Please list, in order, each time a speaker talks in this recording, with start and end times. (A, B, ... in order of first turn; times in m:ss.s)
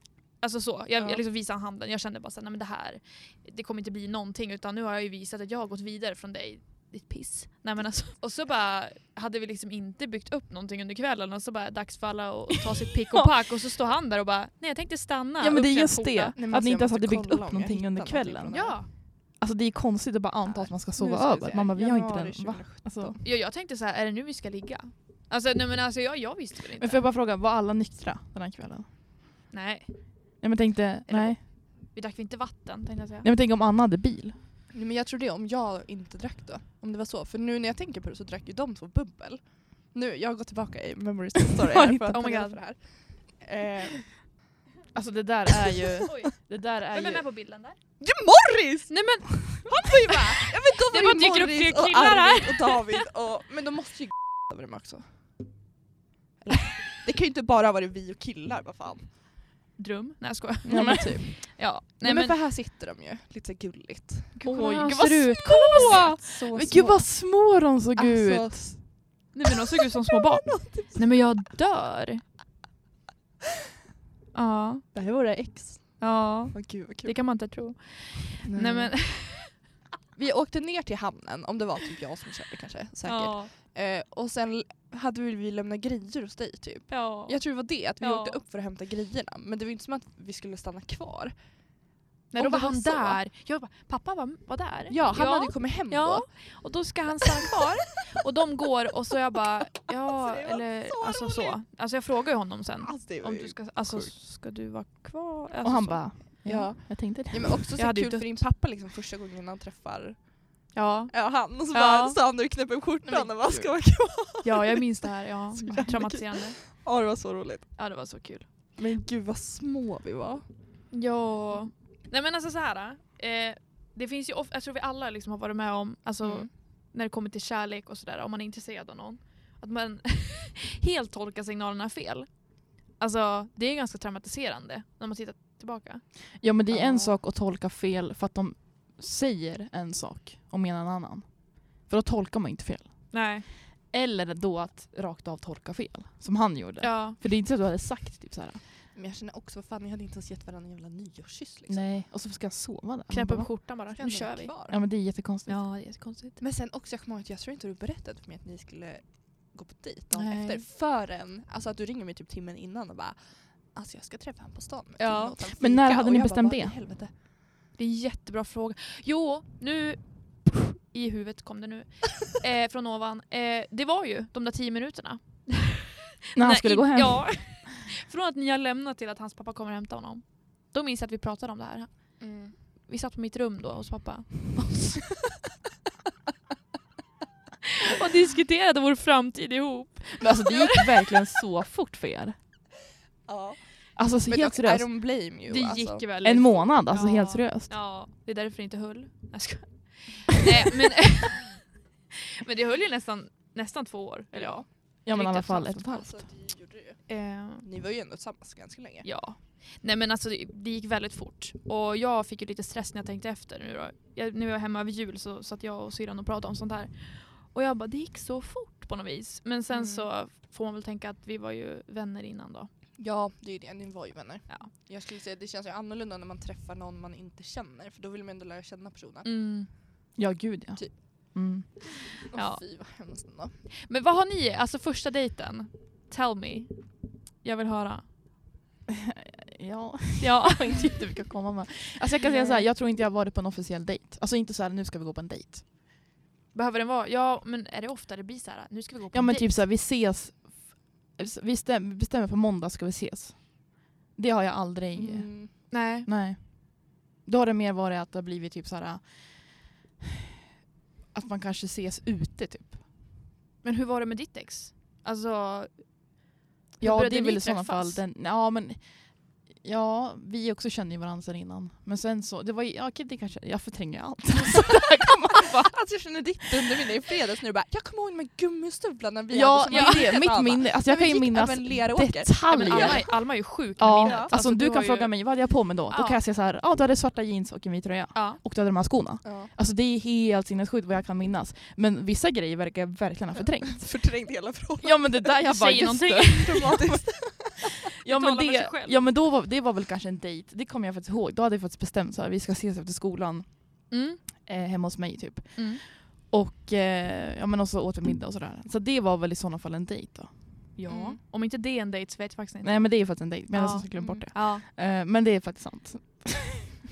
0:00.4-0:16.4 A
0:15.4-0:18.8 B
0:16.4-0:18.8 C
0:18.5-0:18.9 A
0:19.4-0:23.2 B
0:20.5-0:23.2 C
0:23.2-0:27.1 A
0:26.8-0:28.9 B
0:29.5-0:30.4 A
0:30.4-0:31.4 B
0:31.1-0:33.3 A
0:33.2-0:34.4 B
0:34.7-0:44.2 C
0:41.7-0:42.2 B
0:42.1-0:42.6 A
0:44.9-0:47.3 B
0:46.1-0:47.8 A
0:48.0-0:55.4 C
0:48.9-0:53.0 A
0:56.4-0:59.2 C
0:59.8-1:02.4 A
1:00.6-1:04.4 C
1:00.7-1:01.2 B
1:04.4-1:06.2 A
1:04.4-1:08.7 B
1:05.7-1:08.9 C
1:09.3-1:12.2 A
1:10.4-1:11.1 C
1:14.3-1:14.8 A
1:14.9-1:17.4 C
1:16.0-1:19.5 A
1:18.4-1:19.0 C
1:20.2-1:31.4 C
1:23.0-1:23.5 A
1:26.9-1:28.4 A
1:32.3-1:46.4 A
1:32.4-1:33.2 C
1:34.9-1:36.3 C
1:39.9-1:41.6 C
1:42.8-1:44.2 C
1:45.6-1:47.6 B
1:46.4-1:54.9 C
1:47.8-1:48.5 A
1:50.7-1:52.2 A
1:53.1-1:53.8 A
1:54.4-1:56.6 A
1:55.6-1:57.8 C
1:57.8-1:58.5 A
1:58.8-2:00.4 C
2:00.9-2:16.8 A
2:06.2-2:06.5 C
2:16.4-2:23.4 B
2:16.7-2:17.0 C
2:23.1-2:23.5 A
2:23.9-2:28.6 B
2:26.8-2:27.2 A
2:28.9-2:31.9 C
2:31.7-2:33.6 B
2:33.1-2:34.6 A
2:33.9-2:34.8 C
2:34.7-2:35.6 B
2:35.5-2:36.4 A
2:36.4-2:47.1 C
2:40.2-2:40.6 B
2:45.0-2:45.4 A
2:45.6-2:46.8 B
2:47.8-3:05.2 A
2:56.4-2:57.7 B
3:02.2-3:02.6 C
3:07.8-3:11.1 A
3:10.2-3:12.4 B
3:13.2-3:16.1 C
3:14.0-3:14.9 B
3:15.5-3:21.7 A
3:16.2-3:17.7 B
3:22.4-3:25.7 A
3:24.3-3:24.7 C
3:25.0-3:26.3 B
3:25.5-3:29.1 C
3:27.1-3:27.7 A
3:29.0-3:42.7 A
3:39.7-3:40.1 C
3:43.0-3:49.3 C
3:49.2-3:49.7 A
3:50.2-3:51.7 B
3:50.8-3:53.6 C
3:52.3-3:53.2 A
3:53.8-3:58.1 A
3:58.9-4:05.6 B
4:00.2-4:00.9 A
4:02.2-4:02.7 A
4:06.5-4:09.7 A
4:09.1-4:20.0 B
4:14.9-4:15.7 C
4:15.7-4:16.1 A
4:21.1-4:22.8 B
4:23.6-4:26.2 A
4:26.8-4:28.0 A
4:26.8-4:36.1 B
4:35.6-4:43.1 C
4:39.3-4:54.1 B
4:39.7-4:40.1 A
4:42.5-4:46.2 A
4:44.0-4:44.3 C
4:48.1-4:48.4 A
4:49.2-4:49.5 C
4:53.7-4:55.3 C
4:54.8-4:57.5 B
4:55.4-4:56.9 A
4:56.5-4:57.6 C
4:58.0-5:03.9 B
4:58.0-4:59.0 A
5:03.9-5:04.5 A
5:04.4-5:10.7 B
5:05.6-5:05.8 A
5:10.8-5:14.6 A
5:10.9-5:11.2 C
5:12.6-5:16.7 B
5:14.0-5:14.2 C